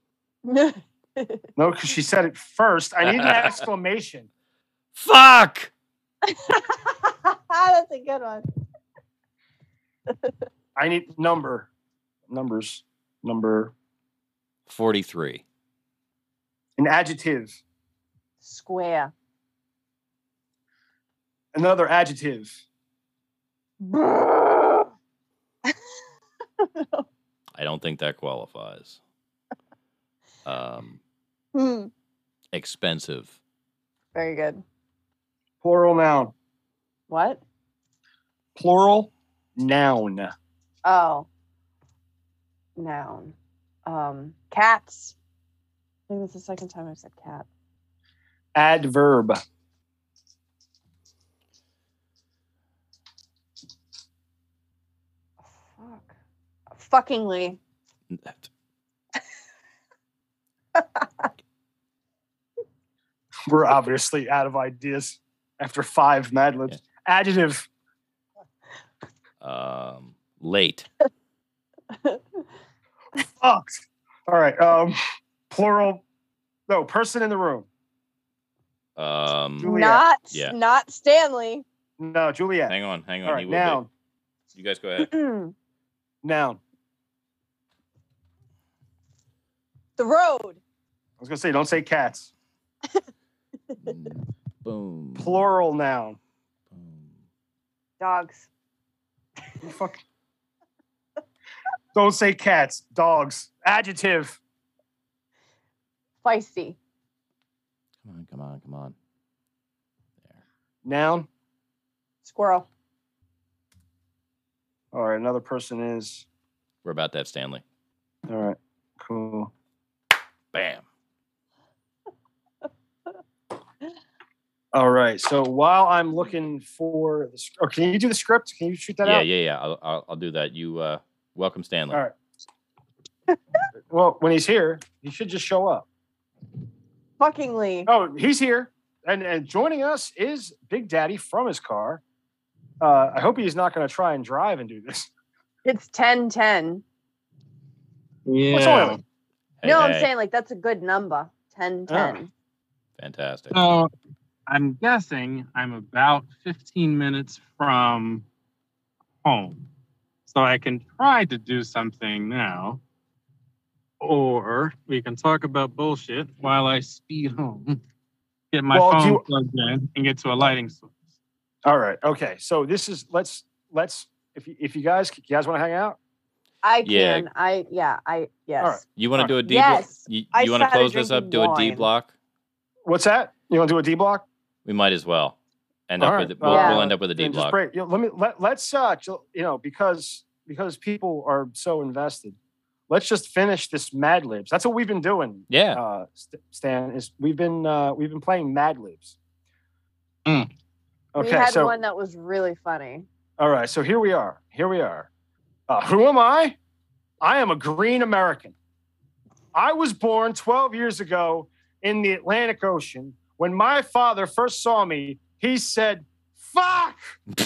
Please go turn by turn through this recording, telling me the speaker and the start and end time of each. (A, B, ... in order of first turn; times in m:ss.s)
0:00.4-0:01.4 A
0:01.6-0:04.3 B
0:03.1-0:03.4 C
0:05.0-0:05.7 C
0:06.3-0:08.4 A
0:10.8-0:11.7 B
0:12.3-0:13.7 B
0:14.7-0:15.4 C
0:16.8-0:17.6 B
0:18.4-0:19.1 A
0:21.5-0:22.6 B
0:23.8-0:24.9 A
0:26.6-0:27.0 A
0:27.6-0:29.0 C
0:30.4-0:31.0 C
0:31.5-0:31.9 A
0:32.5-0:33.4 C
0:34.2-0:34.6 A
0:35.6-0:36.3 B
0:37.1-0:37.4 A
0:38.6-0:40.3 B
0:40.8-0:41.3 A
0:42.8-0:43.4 A
0:43.9-0:45.2 A
0:46.1-0:47.5 A
0:48.6-0:49.4 B
0:55.7-0:56.1 A
0:56.7-0:57.6 A
0:58.1-0:58.5 C
1:00.8-1:01.2 A
1:03.5-1:07.7 B
1:09.4-1:10.9 C
1:13.4-1:15.0 B
1:15.5-1:16.0 B
1:16.7-1:17.7 B
1:19.0-1:19.8 C
1:19.6-1:20.0 B
1:19.6-1:21.6 A
1:22.0-1:23.9 B
1:22.7-1:23.8 C
1:24.5-1:25.1 C
1:25.0-1:25.5 A
1:26.2-1:26.6 B
1:30.0-1:30.6 A
1:31.2-1:32.3 B
1:33.8-1:35.5 C
1:35.2-1:36.2 B
1:36.7-1:37.1 C
1:38.0-1:38.5 A
1:39.6-1:40.0 B
1:42.0-1:44.4 B
1:46.2-1:46.8 A
1:48.0-1:49.0 C
1:50.8-1:51.3 B
1:52.2-1:52.7 A
1:54.9-1:56.2 B
1:56.8-1:57.6 C
1:58.3-1:59.5 B
2:00.5-2:00.8 C
2:04.7-2:09.3 B
2:09.0-2:12.0 C
2:13.9-2:15.9 B
2:17.2-2:17.9 A
2:17.9-2:22.0 B
2:22.8-2:25.1 B
2:25.6-2:26.8 A
2:28.3-2:29.0 D
2:28.5-2:29.0 B
2:29.6-2:30.1 C
2:29.6-2:32.3 A
2:31.9-2:32.2 B
2:33.0-2:33.6 C
2:33.5-2:33.9 D
2:34.5-2:38.3 D
2:39.2-2:39.7 D
2:40.3-2:42.8 D
2:44.0-2:47.8 D
2:48.5-2:51.1 D
2:48.7-2:49.2 B
2:51.6-2:56.0 B
2:56.6-2:58.8 A
2:56.8-2:57.3 C
2:58.6-2:59.4 B
2:59.0-3:02.1 C
2:59.4-3:01.9 A
3:02.9-3:04.2 B
3:04.6-3:05.4 C
3:05.9-3:07.6 C
3:06.0-3:12.4 B
3:06.4-3:06.9 A
3:12.9-3:19.2 B
3:15.5-3:15.8 C
3:21.2-3:21.8 B
3:21.2-3:23.1 A
3:23.4-3:25.1 B
3:25.7-3:26.6 B
3:27.2-3:28.6 B
3:29.6-3:37.1 B